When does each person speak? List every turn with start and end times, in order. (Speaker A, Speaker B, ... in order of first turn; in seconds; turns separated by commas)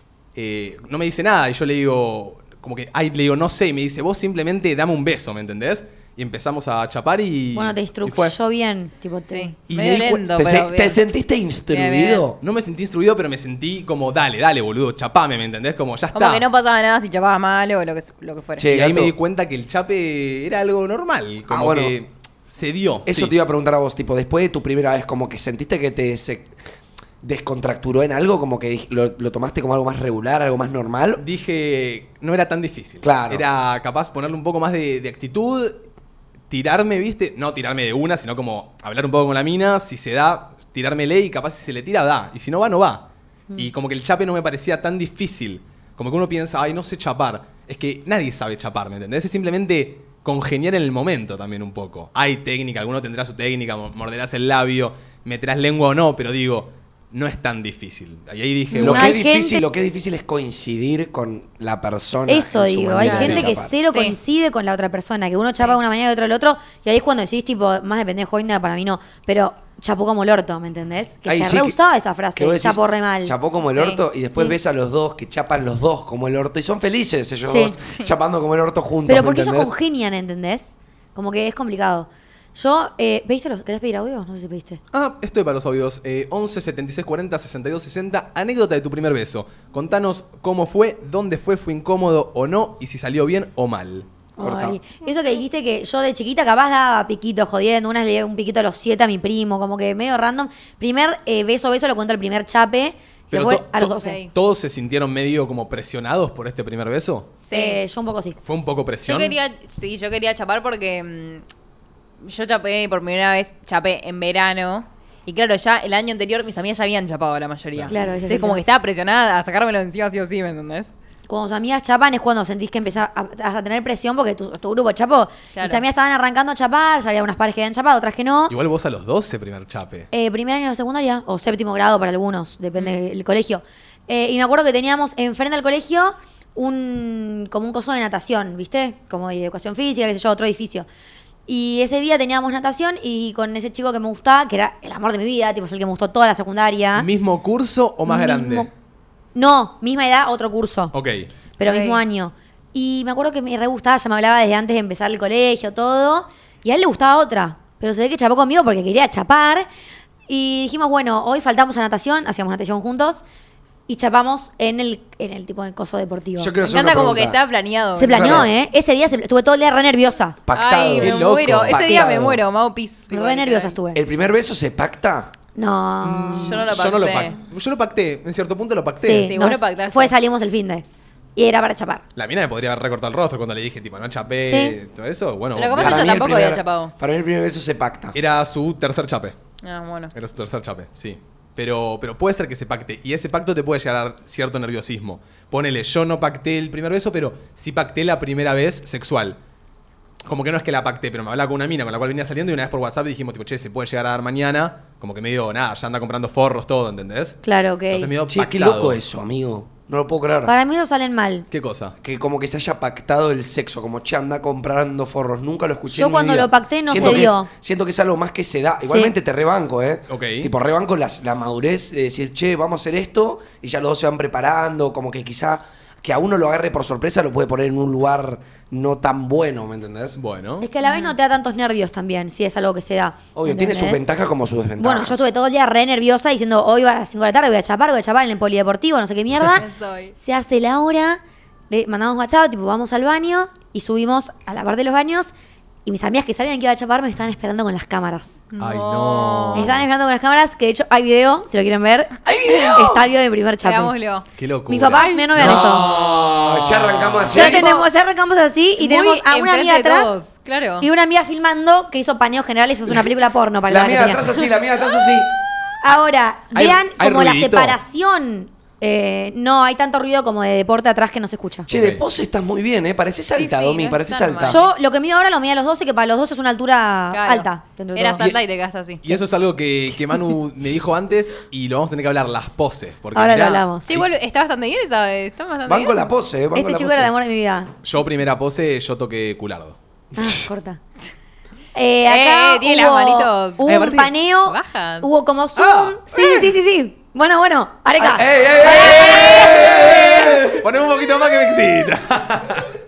Speaker A: 0.3-8.4, Speaker B: 7.5-9.5, Speaker C: 9.3-11.0, Speaker A: 9.7-10.2, Speaker D: 10.3-12.4, Speaker C: 11.7-12.2, Speaker A: 12.4-16.4, Speaker C: 16.1-18.7, Speaker D: 18.6-19.1, Speaker A: 18.6-23.3, Speaker D: 21.5-21.9, Speaker D: 23.1-26.5, Speaker D: 27.2-31.2, Speaker A: 31.2-35.8, Speaker D: 33.0-33.4, Speaker A: 36.5-59.2, Speaker B: 58.7-59.6, Speaker D: 58.8-63.8, Speaker B: 62.3-73.3, Speaker C: 63.0-64.2, Speaker A: 63.0-63.5, Speaker D: 71.2-71.8, Speaker D: 72.4-79.7, Speaker C: 73.8-74.0, Speaker B: 77.5-77.8, Speaker C: 77.9-78.1, Speaker B: 79.1-84.8, Speaker A: 84.9-94.1, Speaker B: 94.4-104.2, Speaker D: 94.4-94.8, Speaker A: 103.3-107.3, Speaker C: 104.0-104.3, Speaker C: 107.5-107.8, Speaker B: 107.5-108.4, Speaker A: 108.4-109.4, Speaker C: 109.0-111.4, Speaker C: 112.2-120.9, Speaker B: 117.9-118.6, Speaker B: 121.3-128.6, Speaker C: 125.5-125.8, Speaker A: 128.5-130.1, Speaker B: 130.1-140.9, Speaker B: 141.5-147.1, Speaker A: 146.9-148.7, Speaker B: 148.1-148.7, Speaker B: 149.3-150.9, Speaker A: 150.9-151.3, Speaker B: 151.6-159.7, Speaker C: 151.6-152.0, Speaker B: 160.3-163.2, Speaker B: 163.9-166.5, Speaker D: 166.4-167.4, Speaker C: 166.6-168.4, Speaker B: 167.9-170.4, Speaker D: 168.1-168.5, Speaker D: 170.4-172.4, Speaker C: 170.5-173.8, Speaker A: 171.0-172.2, Speaker B: 171.8-172.2, Speaker B: 173.1-174.0, Speaker D: 173.9-175.3, Speaker B: 175.6-176.7, Speaker A: 176.0-179.3, Speaker C: 176.4-177.4, Speaker B: 179.0-180.8, Speaker C: 179.2-180.1, Speaker B: 181.4-182.0, Speaker A: 182.1-186.3, Speaker B: 184.4-184.8, Speaker C: 185.6-186.9, Speaker D: 185.8-188.2, Speaker A: 188.1-189.4, Speaker C: 189.6-190.1, Speaker A: 190.1-199.4, Speaker A: 200.2-209.0, Speaker B: 207.4-208.1, Speaker D: 208.3-210.5, Speaker B: 210.5-211.5, Speaker A: 211.5-212.0, Speaker D: 212.0-230.2, Speaker B: 215.9-217.5, Speaker A: 216.9-217.3, Speaker B: 218.9-219.1, Speaker A: 220.1-220.5, Speaker A: 230.2-230.7, Speaker B: 230.6-234.0, Speaker C: 230.8-231.2, Speaker D: 233.3-235.3, Speaker B: 234.8-239.7, Speaker C: 239.5-240.1, Speaker B: 240.2-245.3, Speaker B: 245.9-248.4, Speaker C: 248.5-249.7, Speaker A: 248.6-249.8, Speaker B: 249.6-252.2, Speaker D: 252.2-253.1, Speaker C: 252.5-252.8, Speaker B: 252.7-253.9, Speaker C: 253.6-254.3, Speaker A: 254.4-257.6, Speaker B: 254.7-255.9, Speaker C: 254.9-255.3, Speaker D: 255.3-257.7, Speaker B: 257.3-260.2, Speaker C: 257.4-257.9, Speaker C: 258.8-260.9, Speaker B: 260.8-264.2, Speaker D: 263.7-265.3, Speaker B: 265.8-271.7, Speaker A: 266.5-267.8, Speaker D: 267.0-267.7, Speaker D: 271.7-274.6, Speaker A: 271.7-272.0, Speaker C: 273.4-274.8, Speaker B: 274.5-278.2, Speaker C: 277.1-279.0, Speaker A: 279.0-284.1, Speaker B: 283.1-283.9, Speaker C: 283.9-286.0, Speaker D: 285.6-287.1, Speaker B: 286.5-287.7, Speaker A: 287.8-289.8, Speaker B: 290.1-290.8, Speaker B: 291.8-300.2, Speaker C: 292.1-293.7, Speaker A: 293.6-294.1, Speaker C: 294.4-295.1, Speaker A: 295.6-296.4, Speaker D: 298.0-300.6, Speaker A: 298.6-302.7